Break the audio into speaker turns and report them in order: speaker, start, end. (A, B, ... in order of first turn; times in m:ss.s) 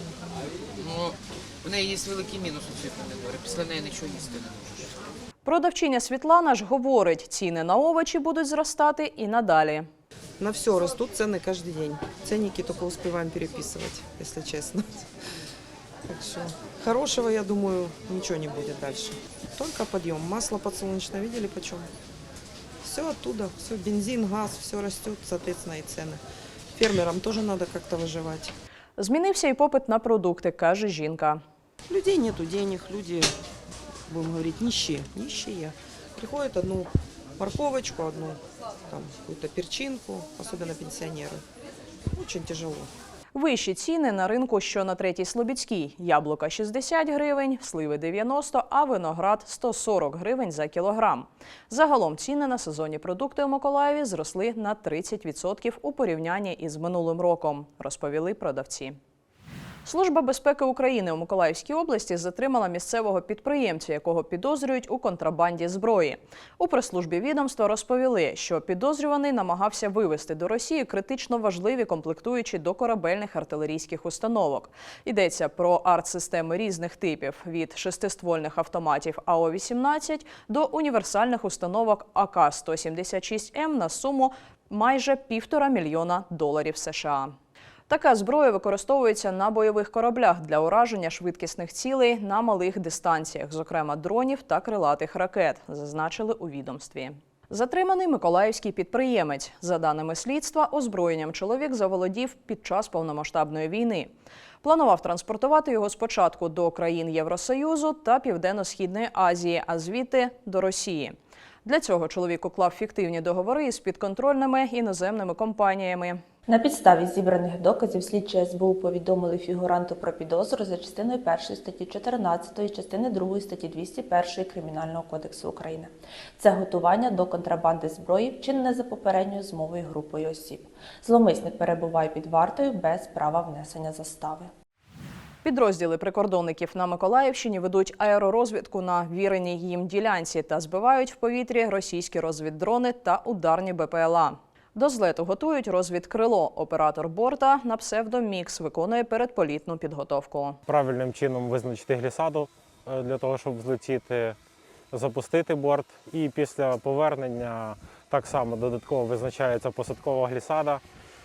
0:00.8-0:04.9 A
0:05.4-0:09.9 B
0:10.4-0:15.0 C
0:16.1-0:21.9 C
0:22.8-0:26.2 C
0:26.7-0:28.5 C
0:29.0-0:31.4 B
0:31.9-0:33.3 C
0:34.1-0:41.4 C
0:42.2-0:42.9 C
0:43.3-0:59.0 B
0:59.8-1:27.4 B
1:27.9-1:44.1 B
1:44.6-1:56.2 B
1:56.5-2:14.5 D
2:15.4-2:30.6 B
2:30.7-2:34.4 E
2:34.9-2:40.8 E